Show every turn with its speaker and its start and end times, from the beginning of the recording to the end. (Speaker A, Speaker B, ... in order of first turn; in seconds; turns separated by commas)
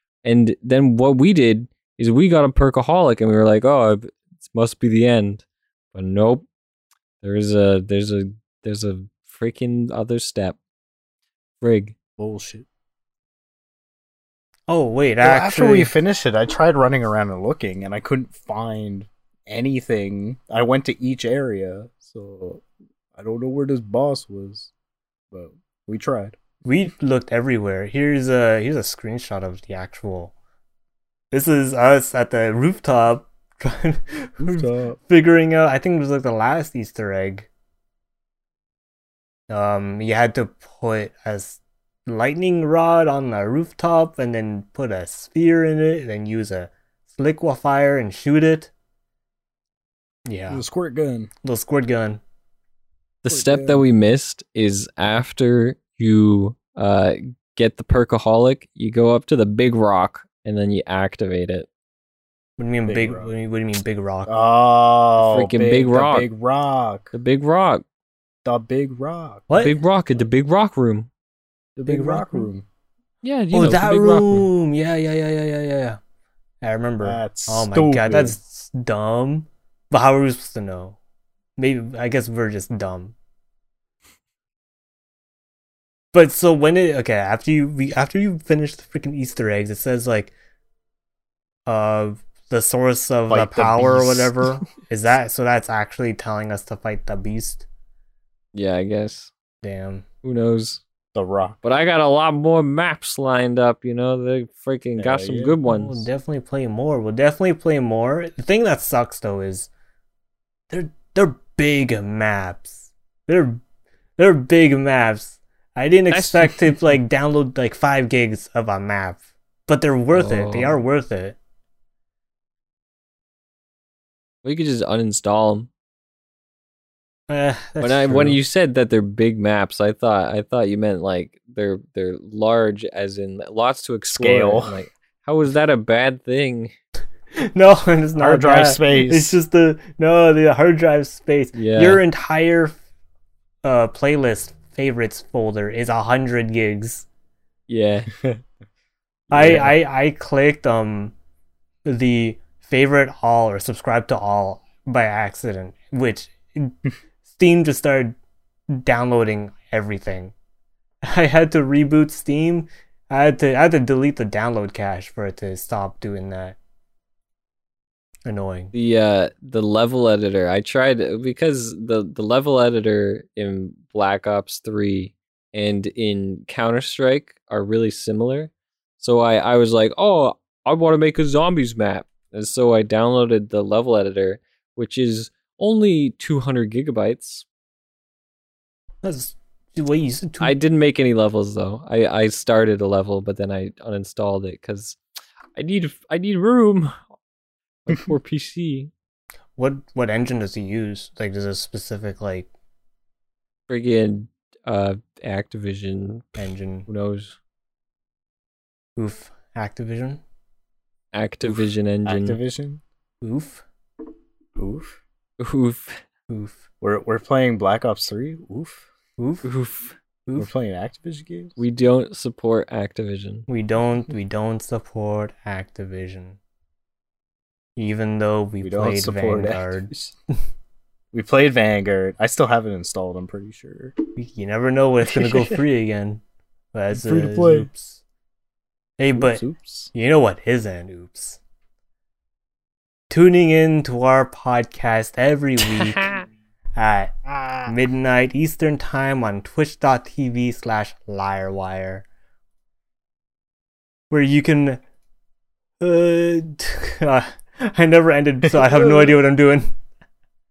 Speaker A: 0.2-6.5, Speaker A: 7.2-10.6, Speaker A: 11.6-11.9, Speaker B: 12.2-12.7, Speaker C: 14.7-15.9, Speaker B: 15.2-22.6, Speaker B: 23.1-24.7, Speaker B: 25.3-26.4, Speaker C: 26.6-30.3, Speaker C: 31.3-37.5, Speaker B: 34.4-35.0, Speaker C: 39.5-48.7, Speaker C: 50.3-50.6, Speaker B: 50.5-51.3, Speaker C: 51.4-52.2, Speaker A: 53.2-61.7, Speaker B: 53.3-53.9, Speaker C: 62.6-64.3, Speaker B: 62.9-63.3, Speaker B: 64.3-67.1, Speaker A: 65.2-66.3, Speaker A: 67.1-67.8, Speaker B: 68.5-69.5, Speaker C: 69.5-69.8, Speaker A: 69.6-71.1, Speaker B: 71.8-72.7, Speaker C: 71.9-72.5, Speaker A: 73.2-74.5, Speaker C: 73.5-76.0, Speaker C: 76.6-81.0, Speaker B: 77.0-78.4, Speaker C: 81.6-83.1, Speaker C: 86.1-90.3, Speaker C: 91.7-97.6, Speaker B: 93.3-94.6, Speaker A: 98.5-99.3, Speaker C: 99.6-100.0, Speaker A: 100.2-100.8, Speaker B: 101.1-101.6, Speaker A: 101.6-106.1, Speaker B: 105.0-105.6, Speaker C: 105.7-109.7, Speaker C: 110.7-113.6, Speaker C: 114.2-121.4, Speaker A: 116.1-116.7, Speaker A: 120.1-120.8, Speaker A: 124.4-125.7, Speaker C: 127.3-128.4, Speaker A: 127.8-136.7, Speaker B: 134.1-134.8, Speaker C: 137.4-142.8, Speaker B: 138.2-139.4, Speaker A: 141.6-142.0, Speaker C: 143.6-147.1, Speaker A: 147.7-148.1, Speaker B: 149.3-149.7, Speaker C: 149.3-151.1, Speaker A: 149.4-149.7, Speaker C: 151.8-158.2, Speaker C: 158.7-160.3, Speaker C: 161.1-166.6, Speaker C: 168.3-168.7, Speaker A: 168.7-187.4, Speaker C: 189.0-190.5, Speaker A: 190.4-195.0, Speaker A: 195.6-196.9, Speaker A: 197.8-198.9, Speaker C: 199.6-202.5, Speaker A: 203.7-207.4, Speaker C: 206.4-206.9, Speaker C: 208.9-210.2, Speaker A: 211.1-212.4, Speaker B: 211.4-212.8, Speaker C: 213.2-213.6, Speaker B: 214.6-215.0, Speaker A: 215.4-216.0, Speaker C: 216.3-216.6, Speaker B: 216.8-218.9, Speaker C: 219.2-219.4, Speaker A: 219.4-219.9, Speaker B: 220.3-221.6, Speaker A: 221.6-223.5, Speaker C: 223.5-226.4, Speaker C: 227.8-229.9, Speaker B: 228.6-230.1, Speaker B: 231.1-233.9, Speaker C: 234.2-236.2, Speaker B: 235.1-235.6, Speaker C: 236.7-238.0, Speaker B: 236.9-237.7, Speaker C: 239.0-241.4, Speaker B: 239.1-239.9, Speaker C: 243.1-246.1, Speaker A: 245.8-246.2, Speaker C: 246.7-247.1, Speaker B: 247.3-247.7, Speaker C: 247.7-252.1, Speaker C: 254.1-254.8, Speaker C: 255.8-259.7, Speaker B: 258.6-259.2